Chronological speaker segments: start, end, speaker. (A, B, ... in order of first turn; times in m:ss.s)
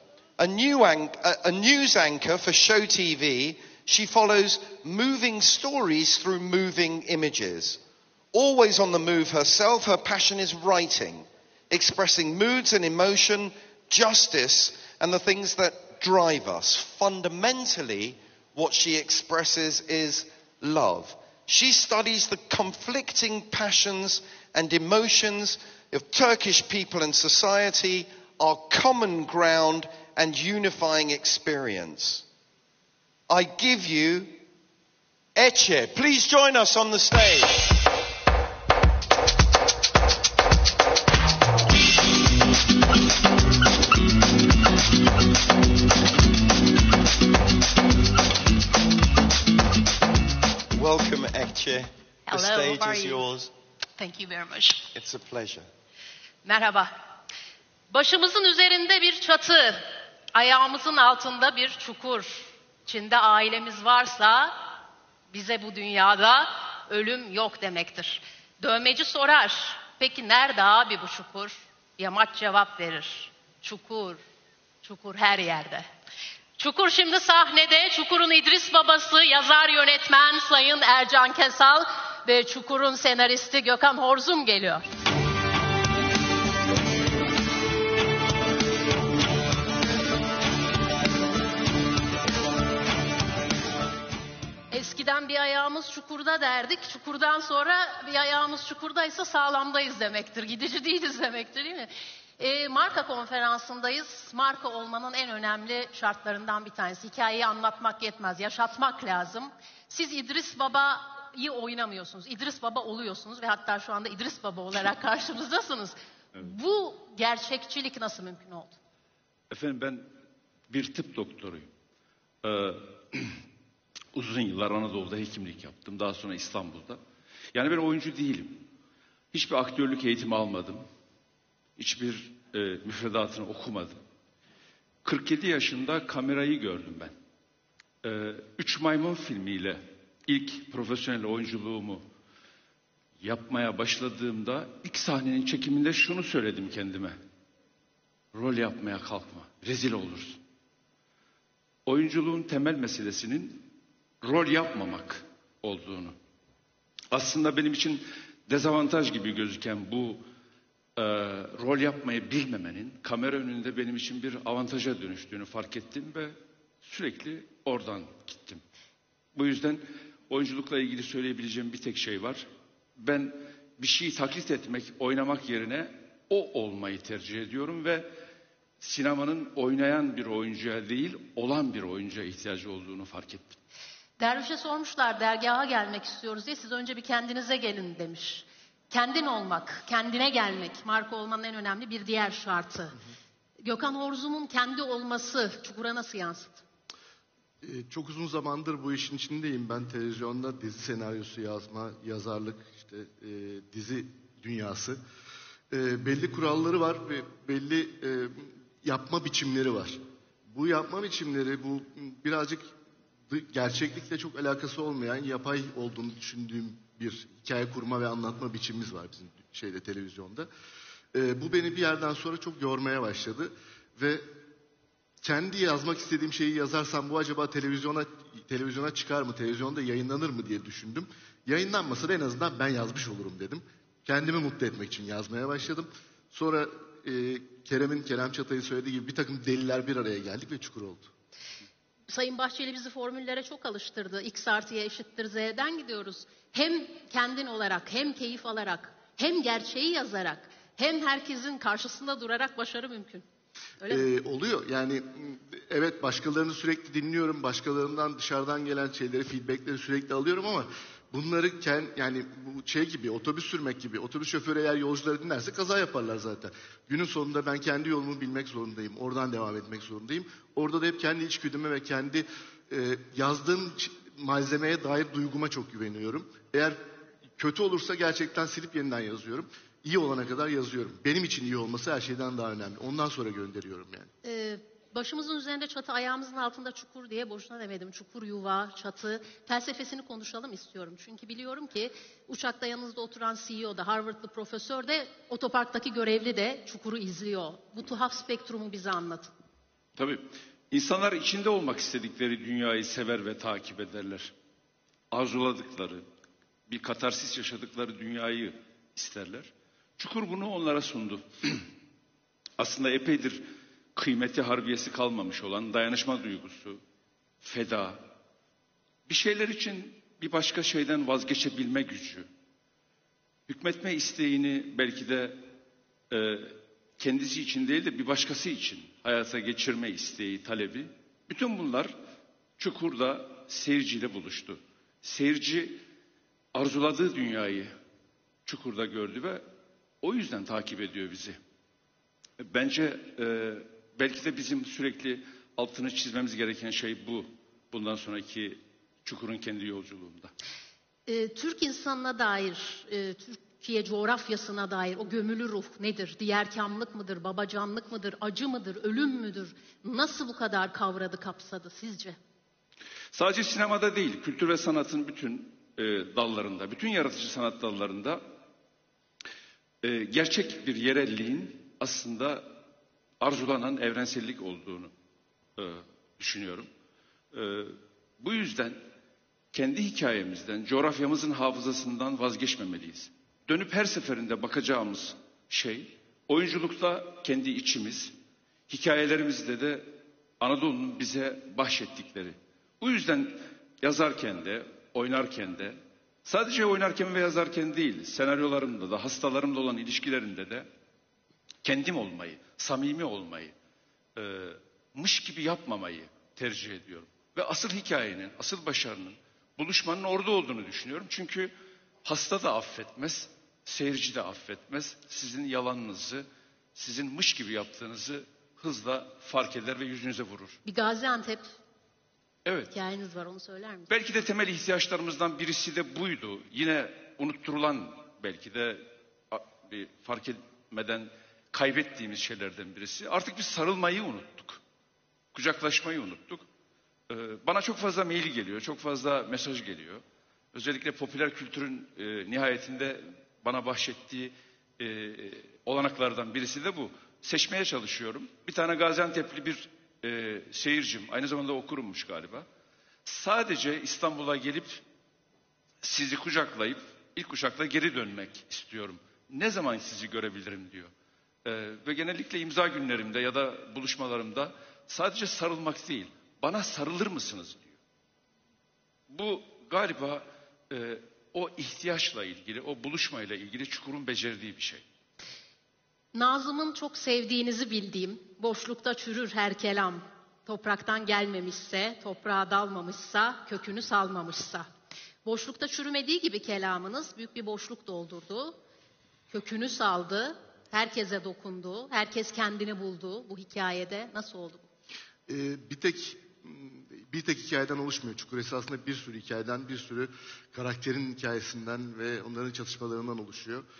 0:00.4-0:07.8 A
0:08.3-0:32.2 A
0:33.3-0:34.4 A
0:35.4-0:37.7 A
0:50.7-0:53.5 A
0:52.3-0:53.3 B
0:54.0-0:54.9 B
0:54.9-0:55.7 A
0:56.4-0:56.9 B
0:57.9-1:04.7 B
1:05.3-1:14.2 B
1:14.8-1:15.9 B
1:16.6-1:24.8 B
1:34.7-1:58.8 B
1:59.5-2:00.1 C
2:00.7-2:01.7 C
2:02.4-2:03.4 C
2:04.1-2:07.0 C
2:07.5-2:08.7 C
2:09.3-2:10.8 C
2:11.8-2:14.0 C
2:15.0-2:17.1 C
2:18.0-2:22.0 C
2:23.2-2:27.2 C
2:28.3-2:30.4 C
2:31.9-2:33.7 C
2:34.2-2:36.2 C
2:37.1-2:40.2 C
2:41.0-2:48.6 C
2:49.4-2:52.5 C
2:53.0-2:58.1 C
2:58.8-3:03.6 C
3:04.2-3:13.0 B
3:13.6-3:16.6 B
3:17.6-3:25.0 D
3:25.7-3:32.7 D
3:33.3-3:40.5 D
3:41.1-3:44.2 D
3:45.2-4:01.1 D
4:02.1-4:13.2 B
4:13.8-4:14.1 B
4:13.9-4:36.8 D
4:37.4-4:44.1 D
4:44.2-4:59.3 B
5:00.0-5:04.3 C
5:05.1-5:06.0 C
5:06.7-5:11.7 C
5:12.6-5:13.4 C
5:14.0-5:16.8 C
5:17.4-5:18.1 C
5:19.1-5:22.3 C
5:23.5-5:25.4 C
5:26.1-5:31.9 C
5:32.6-5:35.8 C
5:36.5-5:37.7 C
5:38.5-5:39.4 C
5:40.0-5:41.4 C
5:42.4-5:50.3 C
5:51.1-6:02.2 B
6:03.1-6:08.2 C
6:09.8-6:12.5 C
6:13.2-6:14.9 C
6:15.6-6:16.7 C
6:17.3-6:18.8 C
6:19.5-6:28.1 C
6:28.7-6:40.7 C
6:41.6-6:43.5 C
6:44.2-6:51.5 C
6:52.0-7:00.6 C
7:00.6-7:01.5 B
7:02.5-7:02.8 C
7:02.7-7:03.9 B
7:03.9-7:14.6 C
7:15.3-7:16.5 C
7:17.1-7:20.0 C
7:20.5-7:32.5 C
7:33.0-7:34.8 C
7:35.8-7:40.9 C
7:41.4-7:47.8 C
7:49.1-7:54.8 C
7:56.1-8:04.7 B
8:05.2-8:08.6 B
8:09.3-8:14.7 B
8:15.3-8:23.6 D